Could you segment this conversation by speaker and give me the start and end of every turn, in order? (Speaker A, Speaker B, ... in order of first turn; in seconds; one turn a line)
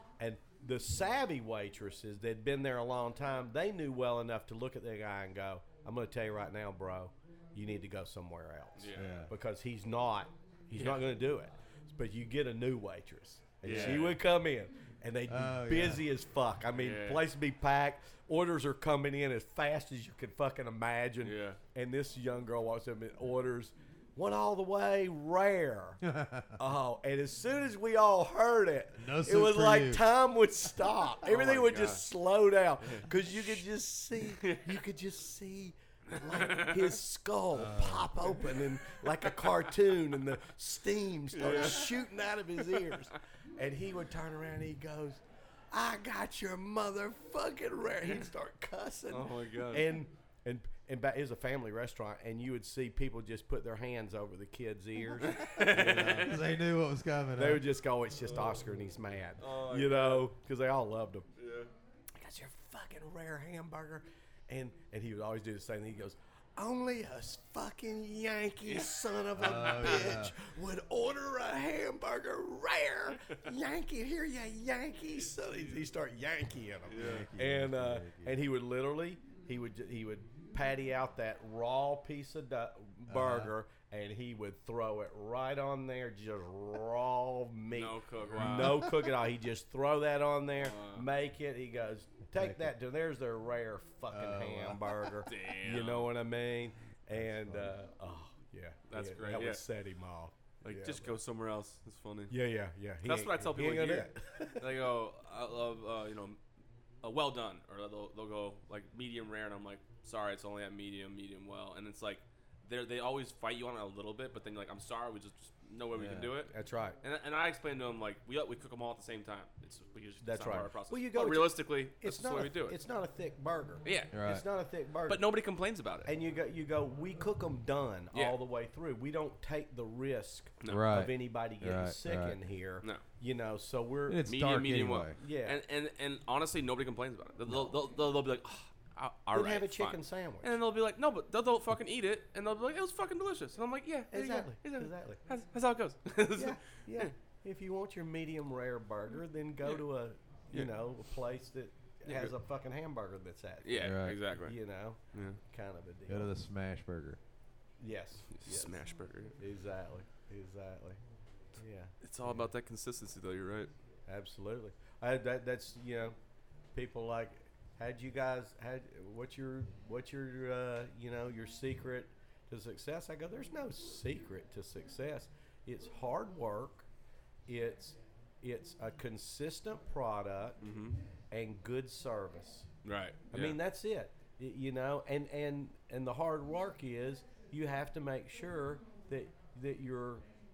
Speaker A: 0.2-26.0
Speaker B: 8.8-9.2
Speaker C: 8.9-9.3
Speaker B: 10.7-11.1
Speaker B: 13.6-14.2
Speaker C: 13.7-14.1
Speaker C: 15.3-16.0
Speaker B: 16.8-17.2
Speaker B: 21.2-21.6
Speaker C: 26.0-26.6
Speaker A: 26.6-56.4
Speaker C: 29.0-30.1
Speaker B: 31.2-32.0
Speaker B: 34.4-34.8
Speaker B: 36.3-36.9
Speaker C: 37.5-38.1
Speaker B: 41.3-42.0
Speaker B: 49.1-49.9
Speaker B: 55.2-56.5
Speaker C: 55.6-57.6
Speaker A: 57.4-61.3
Speaker B: 59.4-60.3
Speaker B: 61.4-61.7
Speaker A: 62.2-101.2
Speaker B: 68.7-68.9
Speaker C: 69.4-70.3
Speaker B: 69.5-70.1
Speaker B: 76.9-77.3
Speaker C: 77.0-78.4
Speaker C: 83.1-83.5
Speaker B: 87.7-88.9
Speaker C: 88.4-88.9
Speaker B: 90.6-91.1
Speaker C: 92.4-92.7
Speaker C: 94.1-95.0
Speaker B: 95.2-96.1
Speaker C: 97.1-97.7
Speaker B: 98.9-99.6
Speaker B: 100.6-102.3
Speaker A: 102.3-104.7
Speaker B: 103.0-106.4
Speaker B: 107.0-122.8
Speaker C: 116.0-116.3
Speaker A: 116.5-117.0
Speaker A: 120.2-125.3
Speaker B: 123.8-124.1
Speaker C: 124.1-124.5
Speaker B: 125.1-126.1
Speaker A: 126.0-134.2
Speaker B: 130.6-130.9
Speaker C: 130.7-132.4
Speaker C: 134.1-135.2
Speaker B: 134.3-147.1
Speaker A: 135.2-135.6
Speaker A: 139.3-140.5
Speaker A: 144.1-145.2
Speaker A: 146.3-156.3
Speaker B: 152.1-152.3
Speaker B: 153.7-154.6
Speaker C: 153.8-154.2
Speaker B: 155.1-155.4
Speaker C: 156.1-157.2
Speaker A: 157.8-158.8
Speaker B: 158.3-159.4
Speaker A: 159.4-161.0
Speaker A: 161.6-161.9
Speaker B: 162.0-163.7
Speaker A: 164.1-166.2
Speaker A: 166.7-176.9
Speaker A: 177.5-180.6
Speaker B: 180.6-180.9
Speaker A: 181.3-182.7
Speaker B: 182.8-183.6
Speaker A: 183.3-190.2